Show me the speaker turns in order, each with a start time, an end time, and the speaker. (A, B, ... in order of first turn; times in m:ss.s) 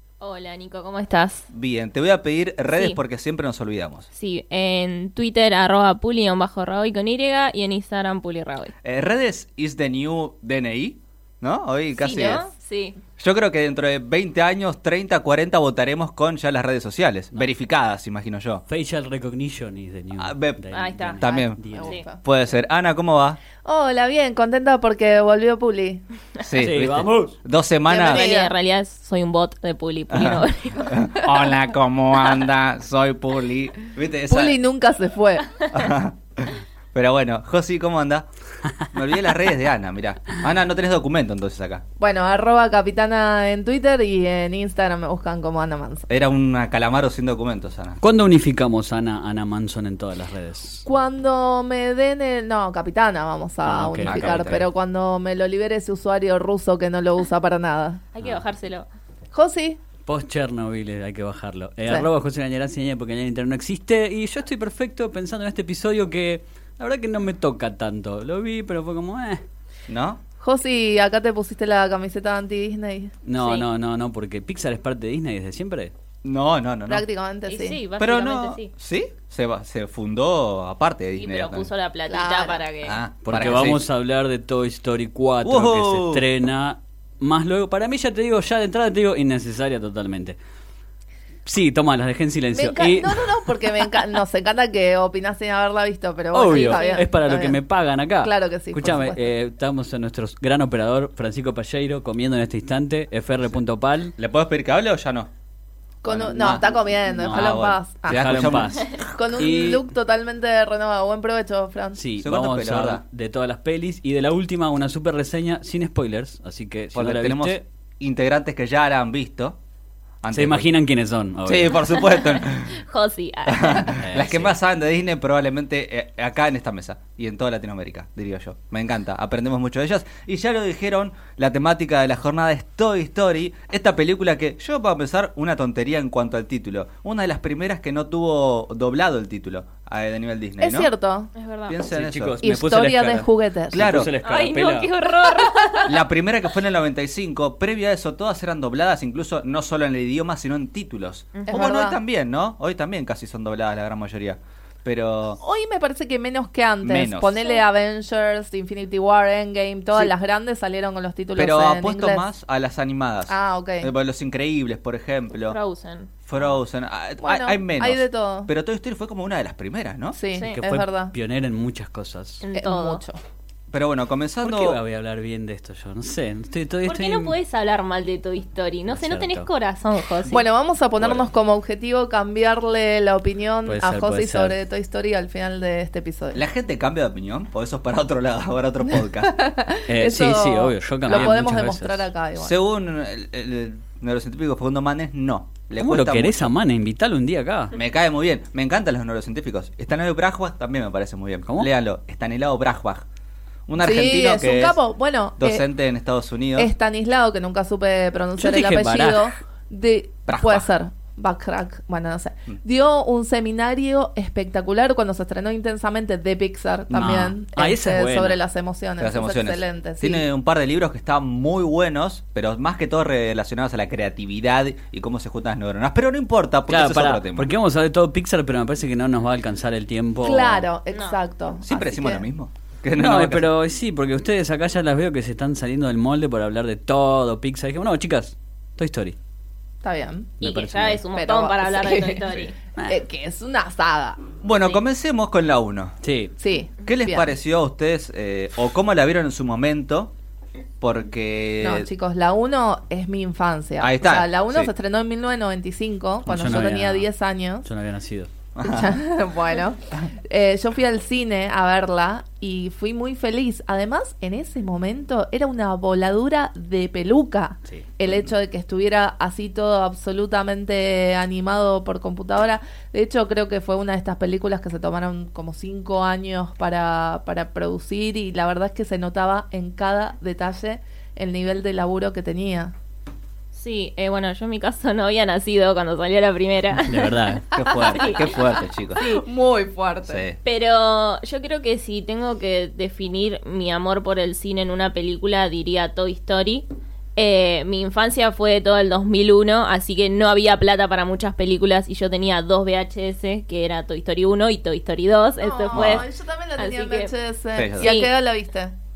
0:00.2-0:01.5 A
0:01.5-0:04.1 B
0:02.7-0:03.0 A
0:04.1-0:08.7 A
0:08.8-0:12.4 B
0:12.0-0:13.0 A
0:12.0-0:12.5 C
0:13.2-0:18.6 B
0:18.7-0:22.0 D
0:20.2-0:23.4 B
0:20.7-0:21.2 A
0:21.3-0:22.2 C
0:23.6-0:26.0 C
0:26.4-0:28.2 B
0:26.6-0:27.4 D
0:27.9-0:28.5 C
0:28.0-0:31.2 A
0:30.1-0:34.6 B
0:34.3-0:35.5 C
0:35.7-0:38.3 B
0:38.9-0:41.8 B
0:42.0-0:46.1 C
0:46.1-0:48.0 B
0:48.0-0:50.8 D
0:50.8-0:58.0 C
0:53.6-0:54.6 D
0:54.0-0:54.7 B
0:58.1-0:58.9 A
0:59.3-0:59.8 C
1:00.1-1:09.4 D
1:09.9-1:10.2 B
1:10.4-1:13.2 C
1:13.2-1:15.9 D
1:13.4-1:13.7 A
1:16.2-1:17.0 B
1:16.9-1:17.8 C
1:17.5-1:18.7 A
1:18.0-1:21.7 B
1:21.2-1:23.0 A
1:22.1-1:22.6 C
1:22.8-1:23.8 B
1:23.2-1:30.4 D
1:25.4-1:26.2 B
1:31.5-1:33.4 D
1:32.5-1:37.6 C
1:36.3-1:44.1 D
1:36.5-1:37.0 A
1:38.2-1:39.2 C
1:44.2-1:45.3 B
1:46.0-1:52.0 C
1:46.1-1:49.5 B
1:47.2-1:49.9 D
1:52.0-1:57.6 D
1:52.2-1:53.0 B
1:56.9-1:59.6 B
2:00.2-2:00.6 B
2:00.3-2:01.9 D
2:01.4-2:02.8 B
2:01.9-2:04.2 A
2:03.5-2:20.9 B
2:03.9-2:04.6 D
2:20.6-2:21.3 C
2:21.4-2:21.8 A
2:21.7-2:22.4 B
2:21.9-2:24.9 D
2:22.4-2:24.0 C
2:23.7-2:24.1 B
2:24.2-2:26.0 A
2:25.8-2:35.4 B
2:31.4-2:31.6 A
2:31.5-2:32.0 C
2:35.4-2:42.2 C
2:36.8-2:37.6 B
2:41.4-2:45.6 B
2:43.3-2:43.9 C
2:45.5-2:46.2 A
2:46.3-2:50.2 B
2:47.2-2:48.5 C
2:50.1-2:51.2 C
2:50.5-2:52.4 D
2:52.4-2:53.0 A
2:52.5-2:53.2 C
2:53.7-2:54.8 B
2:54.4-2:57.4 D
2:56.9-3:00.4 A
2:58.9-2:59.5 D
3:00.3-3:06.4 C
3:01.0-3:01.3 B
3:03.7-3:04.6 D
3:06.3-3:09.4 B
3:09.3-3:12.5 C
3:09.9-3:12.1 D
3:12.4-3:16.5 B
3:15.8-3:17.8 D
3:17.7-3:23.1 B
3:23.7-3:24.8 B
3:23.8-3:25.6 C
3:25.4-3:26.7 B
3:26.6-3:40.2 C
3:28.4-3:29.3 D
3:30.3-3:30.7 B
3:36.9-3:38.4 D
3:39.0-3:47.5 B
3:46.7-3:50.7 D
3:50.2-3:52.3 C
3:51.6-3:53.5 B
3:53.0-3:59.2 D
3:59.8-4:00.4 C
4:00.4-4:01.0 D
4:00.4-4:02.6 A
4:01.1-4:02.3 C
4:02.8-4:04.2 C
4:04.4-4:06.0 B
4:06.0-4:06.3 D
4:06.4-4:07.3 C
4:06.8-4:10.1 B
4:10.8-4:11.9 B
4:11.6-4:17.7 C
4:13.8-4:14.7 B
4:16.3-4:17.1 D
4:17.6-4:18.3 D
4:18.6-4:19.0 B
4:18.6-4:42.7 C
4:43.5-4:49.2 A
4:46.9-4:47.5 D
4:47.5-4:49.0 B
4:49.0-4:50.2 C
4:50.1-4:50.4 B
4:50.4-5:07.1 A
5:05.4-5:08.8 C
5:05.7-5:06.0 B
5:07.6-5:07.9 B
5:07.8-5:08.1 A